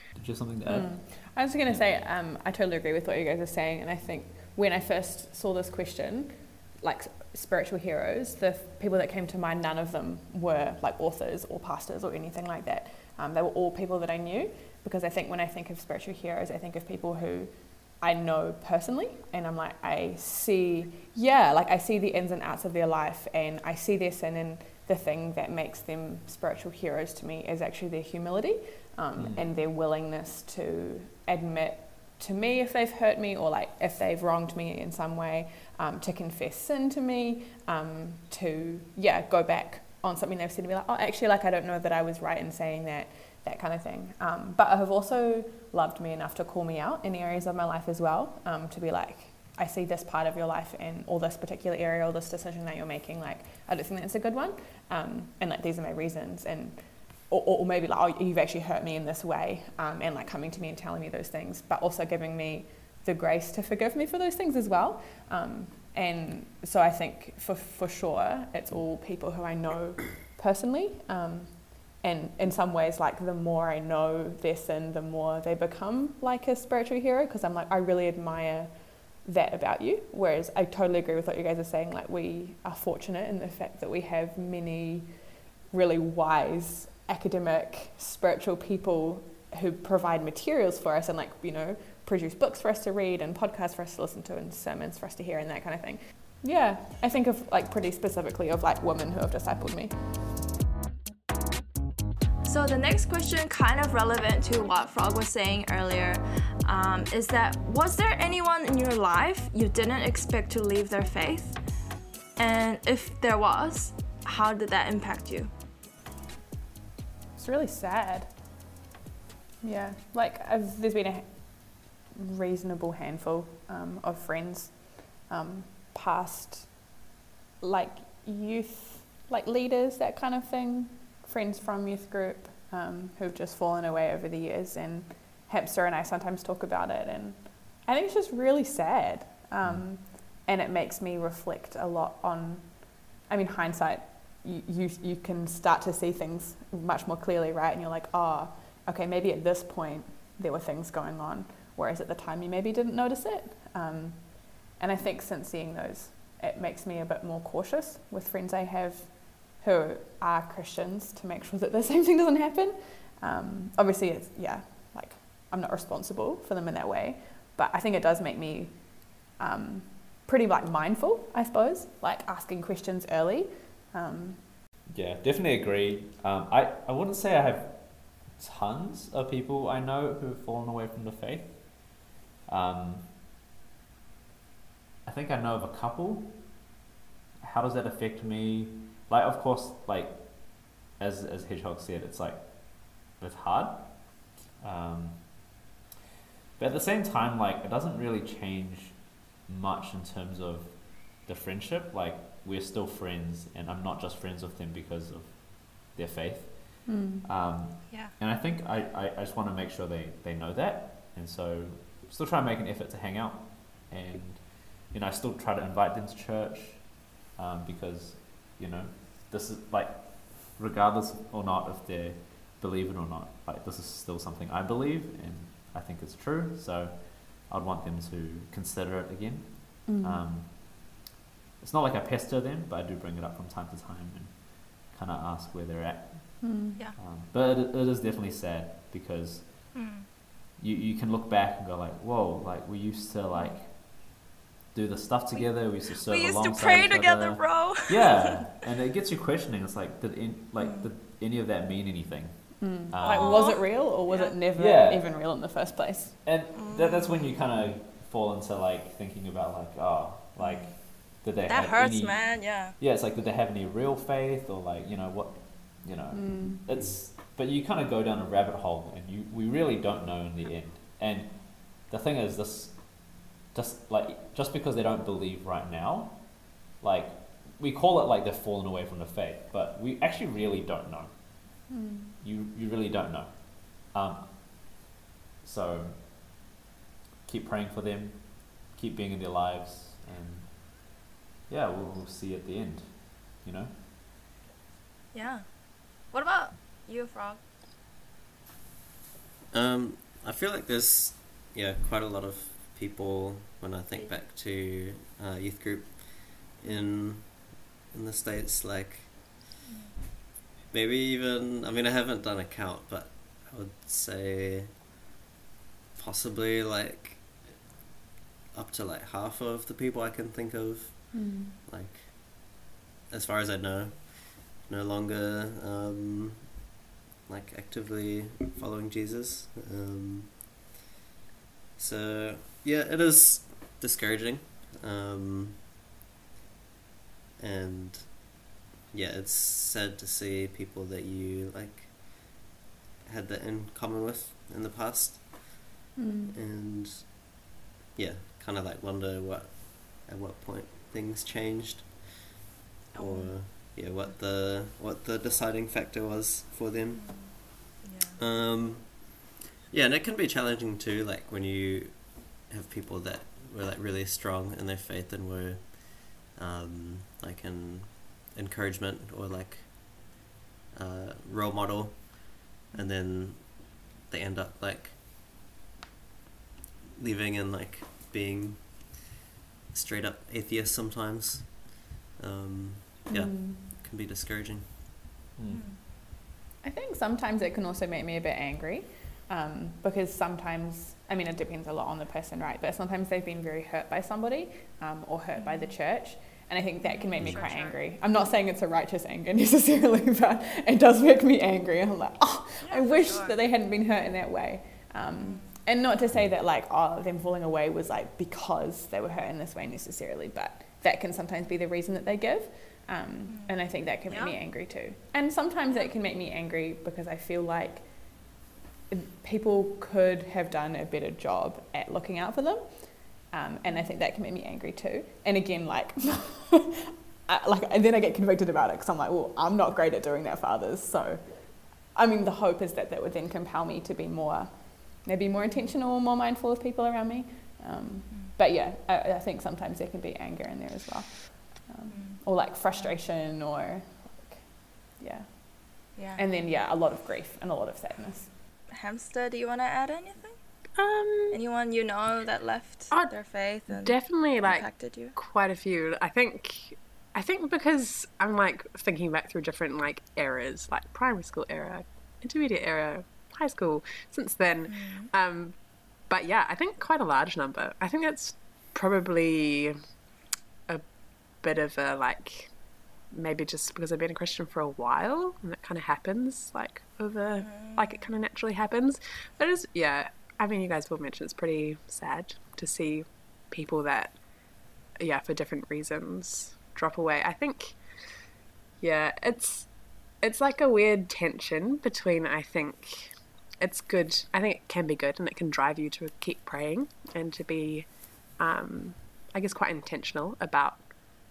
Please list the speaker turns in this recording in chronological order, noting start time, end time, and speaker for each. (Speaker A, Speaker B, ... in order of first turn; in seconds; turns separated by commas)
Speaker A: 0.1-2.0, Speaker B: 0.7-100.0, Speaker A: 29.2-29.5, Speaker C: 102.4-111.6, Speaker C: 112.4-115.5, Speaker B: 117.4-118.3, Speaker B: 119.6-127.0, Speaker B: 127.6-174.5, Speaker A: 139.6-139.9, Speaker A: 174.9-183.2, Speaker A: 185.1-186.7, Speaker A: 187.4-195.6, Speaker A: 196.6-231.1, Speaker B: 206.9-207.3, Speaker B: 229.8-230.2, Speaker A: 231.6-239.7, Speaker B: 236.4-236.8, Speaker C: 239.7-240.1, Speaker A: 240.6-244.2, Speaker A: 244.7-253.7, Speaker C: 245.4-248.5, Speaker C: 250.6-250.9, Speaker B: 252.6-256.2, Speaker C: 253.0-254.4, Speaker A: 254.6-255.1, Speaker A: 256.2-284.9, Speaker C: 256.6-257.3, Speaker C: 260.4-262.8, Speaker B: 266.1-266.6, Speaker D: 266.7-267.0, Speaker B: 281.7-282.2, Speaker A: 285.4-286.4, Speaker A: 287.3-293.8, Speaker C: 295.1-297.4, Speaker D: 299.5-309.4, Speaker C: 309.7-309.9, Speaker D: 310.7-314.8, Speaker D: 316.0-317.7, Speaker D: 318.5-330.5, Speaker B: 321.1-321.6, Speaker D: 331.8-335.6, Speaker D: 337.4-342.5, Speaker D: 343.0-352.3, Speaker B: 346.0-346.4, Speaker D: 352.9-375.0, Speaker C: 352.9-354.1, Speaker C: 356.9-358.2, Speaker D: 377.0-379.1, Speaker D: 379.7-384.8, Speaker B: 383.1-383.6, Speaker A: 385.4-385.7, Speaker C: 385.5-385.8, Speaker B: 386.6-418.4, Speaker C: 395.4-395.8, Speaker C: 396.8-397.8, Speaker A: 397.2-397.5, Speaker C: 402.6-403.4, Speaker C: 405.2-405.5, Speaker C: 413.3-414.4, Speaker B: 418.9-448.3, Speaker C: 423.6-423.9, Speaker C: 435.4-435.7, Speaker C: 441.9-442.9, Speaker C: 446.0-446.2, Speaker C: 448.7-450.6, Speaker E: 450.8-451.4, Speaker C: 451.3-455.2, Speaker E: 452.9-453.2, Speaker E: 453.7-469.8, Speaker C: 464.7-465.1, Speaker E: 471.4-484.2, Speaker C: 477.4-478.0, Speaker E: 484.9-487.8, Speaker E: 488.8-500.9